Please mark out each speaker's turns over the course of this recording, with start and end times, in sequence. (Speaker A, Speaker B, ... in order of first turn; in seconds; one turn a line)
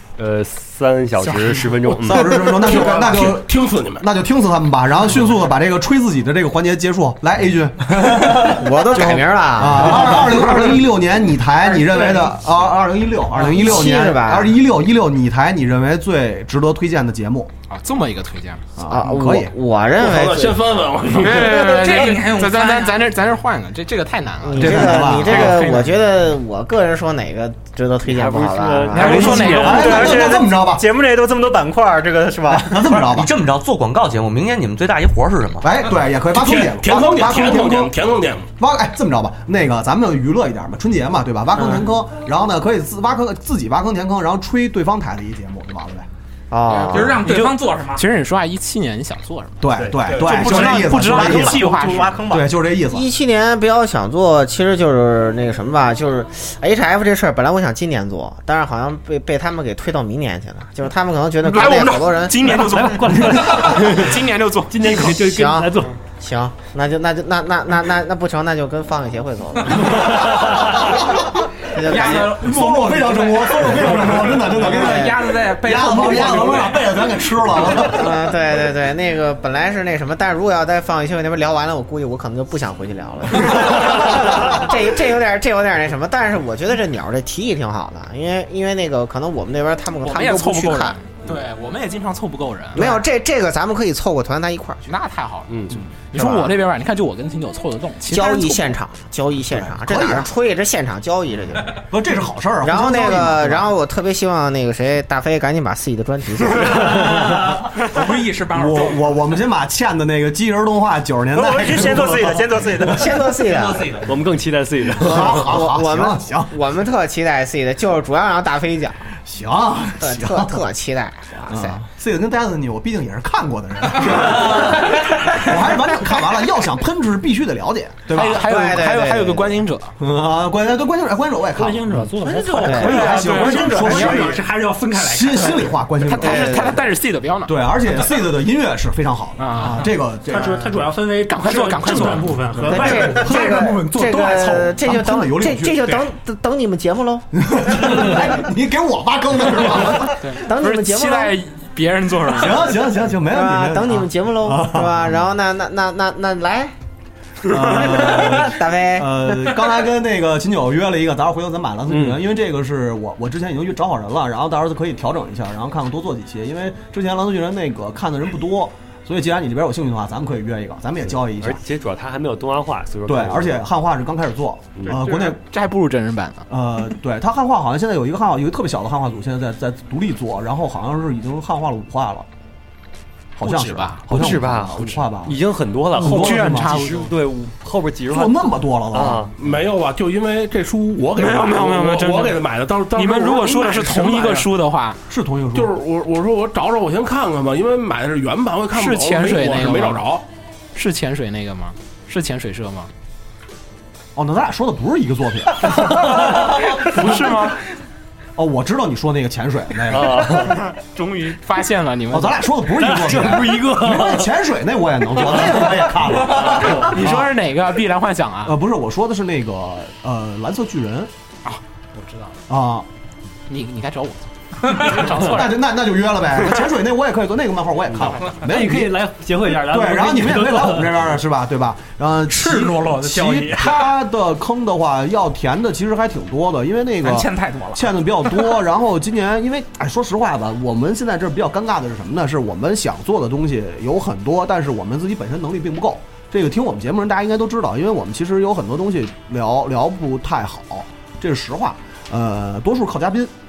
Speaker A: 0.2-2.4
Speaker B: 1.9-17.5
Speaker C: 2.6-4.1
Speaker D: 8.2-10.6
Speaker D: 13.4-14.6
Speaker E: 17.7-18.7
Speaker B: 18.8-19.5
Speaker D: 18.9-20.6
Speaker C: 19.9-21.8
Speaker E: 21.2-26.0
Speaker F: 21.5-23.0
Speaker D: 24.4-29.7
Speaker B: 24.5-25.7
Speaker A: 28.0-30.1
Speaker E: 28.9-30.3
Speaker B: 29.0-30.8
Speaker G: 29.8-33.0
Speaker B: 32.6-33.3
Speaker H: 33.0-35.7
Speaker B: 35.6-37.9
Speaker C: 36.3-38.5
Speaker B: 38.6-46.1
Speaker D: 46.5-47.2
Speaker E: 46.7-52.2
Speaker F: 46.9-48.1
Speaker B: 49.6-53.1
Speaker G: 49.9-52.5
Speaker D: 52.9-62.8
Speaker E: 61.4-65.2
Speaker A: 62.6-64.2
Speaker A: 64.7-66.0
Speaker D: 64.9-71.0
Speaker D: 71.6-72.4
Speaker E: 71.9-74.2
Speaker B: 71.9-78.2
Speaker F: 71.9-73.3
Speaker F: 74.6-76.8
Speaker D: 77.7-91.0
Speaker E: 90.0-93.0
Speaker D: 92.7-94.8
Speaker E: 94.8-98.8
Speaker A: 95.5-95.7
Speaker D: 98.1-101.8
Speaker B: 99.5-100.3
Speaker B: 101.9-103.7
Speaker D: 102.6-107.4
Speaker B: 107.0-107.6
Speaker F: 107.7-109.1
Speaker B: 108.5-113.0
Speaker G: 111.3-113.2
Speaker D: 112.9-114.1
Speaker H: 113.5-114.0
Speaker A: 114.0-115.5
Speaker B: 114.8-116.5
Speaker D: 115.0-119.1
Speaker B: 119.3-120.7
Speaker D: 120.0-121.8
Speaker B: 121.5-128.6
Speaker E: 128.1-129.9
Speaker D: 128.3-129.6
Speaker B: 130.0-136.8
Speaker I: 131.6-135.7
Speaker D: 132.6-133.2
Speaker E: 132.6-134.2
Speaker E: 136.0-138.2
Speaker D: 136.2-136.8
Speaker B: 137.5-140.8
Speaker E: 139.4-139.9
Speaker I: 140.2-144.2
Speaker E: 141.3-142.7
Speaker B: 142.6-146.0
Speaker D: 142.7-148.4
Speaker B: 147.4-150.2
Speaker D: 149.9-151.4
Speaker E: 150.2-152.8
Speaker B: 152.3-155.2
Speaker D: 153.3-156.8
Speaker B: 157.5-171.7
Speaker D: 157.5-159.6
Speaker A: 161.9-162.2
Speaker A: 171.0-173.7
Speaker B: 173.1-175.4
Speaker A: 174.7-175.0
Speaker E: 174.8-176.5
Speaker B: 176.5-182.3
Speaker B: 183.4-185.4
Speaker E: 183.4-184.9
Speaker A: 184.1-189.3
Speaker B: 185.9-186.8
Speaker E: 186.0-187.1
Speaker B: 188.1-189.3
Speaker C: 189.4-194.5
Speaker E: 191.2-195.0
Speaker B: 195.1-195.7
Speaker C: 195.5-200.2
Speaker E: 198.7-200.2
Speaker E: 200.8-202.9
Speaker B: 204.2-207.4
Speaker E: 205.7-207.6
Speaker B: 208.4-210.5
Speaker A: 209.9-210.7
Speaker E: 210.5-213.8
Speaker B: 212.1-217.3
Speaker A: 213.2-214.2
Speaker E: 215.2-218.6
Speaker B: 218.4-221.1
Speaker E: 221.4-222.4
Speaker B: 222.5-222.9
Speaker E: 223.5-225.6
Speaker B: 224.9-253.3
Speaker A: 227.9-231.2
Speaker F: 232.3-233.9
Speaker F: 237.0-238.5